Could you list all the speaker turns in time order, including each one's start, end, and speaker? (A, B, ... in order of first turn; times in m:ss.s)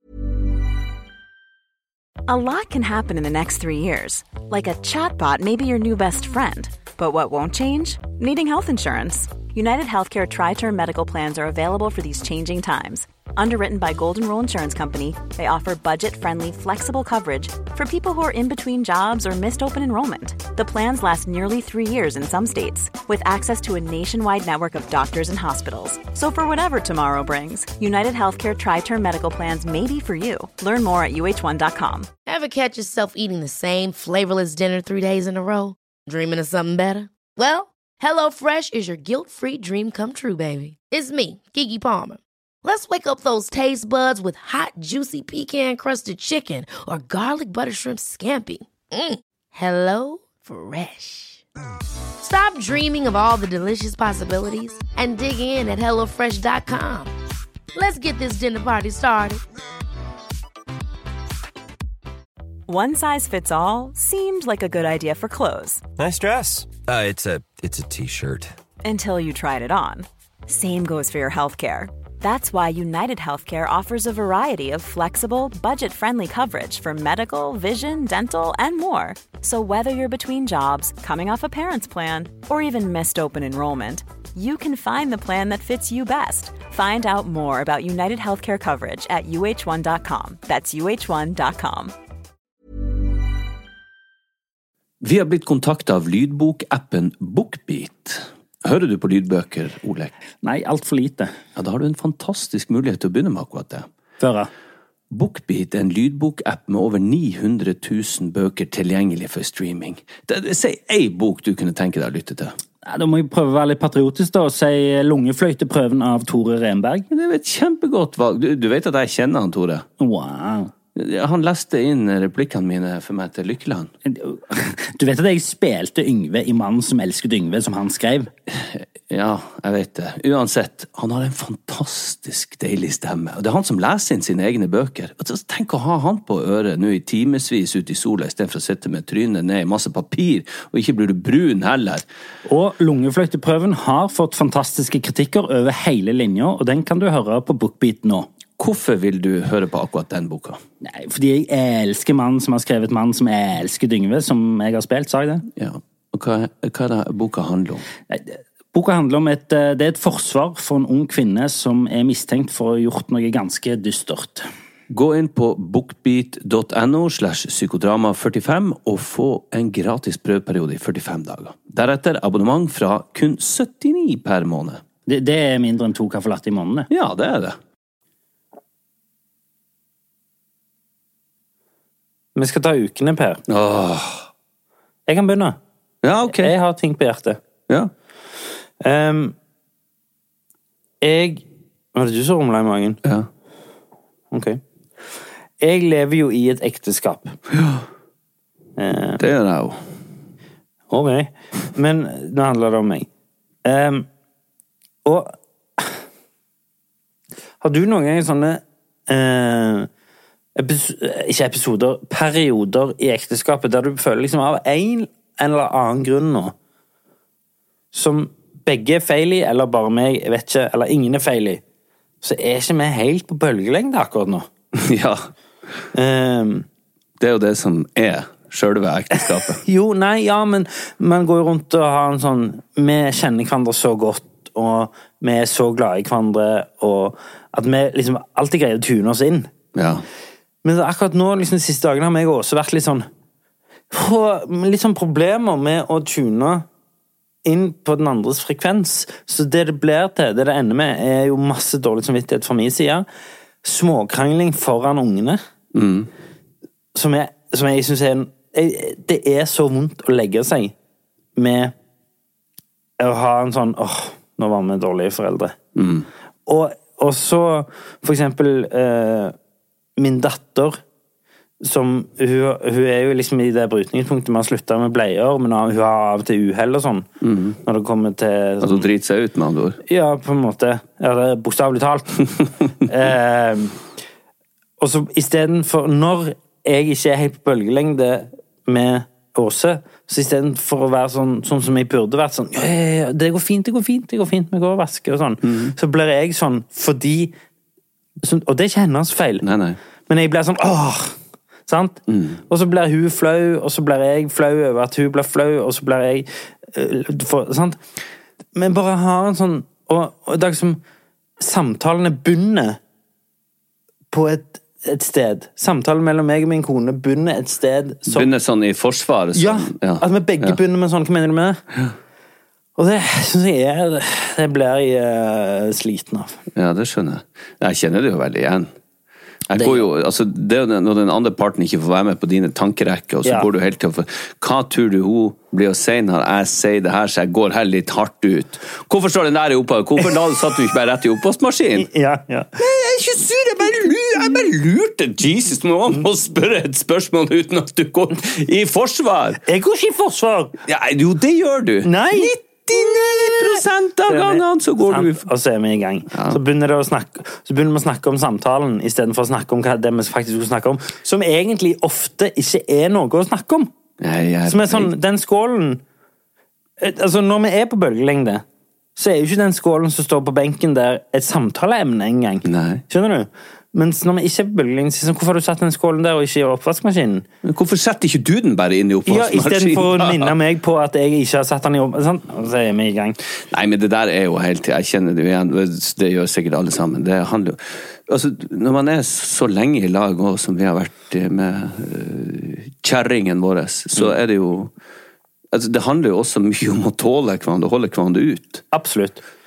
0:02.3-0:32.1 A
0:32.2-0:51.4 B
0:52.2-0:57.1 B
0:57.7-0:59.4 B
1:02.7-1:05.8 A
1:06.0-1:08.5 C
1:08.8-1:31.9 A
1:35.0-1:40.1 D
1:40.4-1:41.3 E
1:41.6-1:43.9 D
1:44.2-1:44.5 E
1:45.1-1:52.5 D
1:52.8-1:57.0 E
1:57.1-1:59.8 D
2:00.0-2:00.7 E
2:01.0-2:03.9 D
2:04.0-2:08.3 E
2:08.5-2:22.0 D
2:22.4-2:28.3 E
2:28.6-2:30.6 D
2:30.8-2:35.4 E
2:35.6-2:37.8 D
2:38.1-2:44.5 E
2:44.9-2:54.8 D
2:55.1-2:56.9 E
2:56.9-2:57.6 D
3:02.3-3:03.4 E
3:03.5-3:04.2 D
3:05.1-3:05.6 E
3:06.0-3:06.5 D
3:06.3-3:07.4 E
3:08.8-3:09.3 E
3:11.0-3:11.4 E
3:11.9-3:13.0 E
3:14.3-3:14.6 E
3:15.6-3:17.4 E
3:17.5-3:17.8 D
3:18.8-3:19.2 E
3:19.2-3:19.8 D
3:20.9-3:23.1 E
3:23.6-3:24.1 E
3:25.0-3:26.0 E
3:27.6-3:29.9 E
3:30.6-3:36.5 E
3:37.9-3:41.6 E
3:42.2-3:44.5 E
3:44.7-3:45.3 D
3:45.9-3:46.6 E
3:47.2-3:49.6 D
3:49.6-3:59.5 E
3:59.7-4:00.0 D
4:00.6-4:03.1 E
4:03.9-4:06.6 E
4:07.4-4:13.0 E
4:13.6-4:15.4 E
4:15.7-4:16.1 D
4:16.9-4:20.7 E
4:21.4-4:21.7 E
4:23.0-4:25.6 E
4:25.8-4:26.1 D
4:26.4-4:29.3 E
4:30.0-4:30.8 E
4:31.6-4:37.1 E
4:37.2-4:37.6 D
4:37.6-4:38.9 E
4:38.6-4:39.8 D
4:39.9-4:42.3 E
4:42.8-4:43.8 E
4:44.8-4:57.3 E
4:55.4-4:55.7 D
4:58.2-4:59.4 E
4:59.4-4:59.8 D
5:00.1-5:01.1 E
5:01.7-5:07.8 E
5:02.1-5:02.4 D
5:08.5-5:10.8 E
5:11.4-5:12.8 E
5:14.1-5:18.3 E
5:18.1-5:20.6 D
5:19.3-5:21.6 E
5:22.8-5:26.4 E
5:26.5-5:28.7 D
5:29.5-5:41.9 D
5:29.5-5:29.9 E
5:41.8-5:42.5 E
5:42.6-5:49.4 D
5:49.4-5:50.5 E
5:50.7-5:55.2 D
5:51.8-5:52.3 E
5:54.1-6:03.7 E
5:56.1-5:56.4 D
6:04.0-6:04.9 D
6:04.4-6:05.8 E
6:06.8-6:08.4 E
6:09.0-6:17.2 E
6:12.4-6:12.8 D
6:17.4-6:20.3 D
6:19.1-6:23.2 E
6:23.5-6:34.7 D
6:35.5-6:38.6 D
6:38.7-6:39.2 E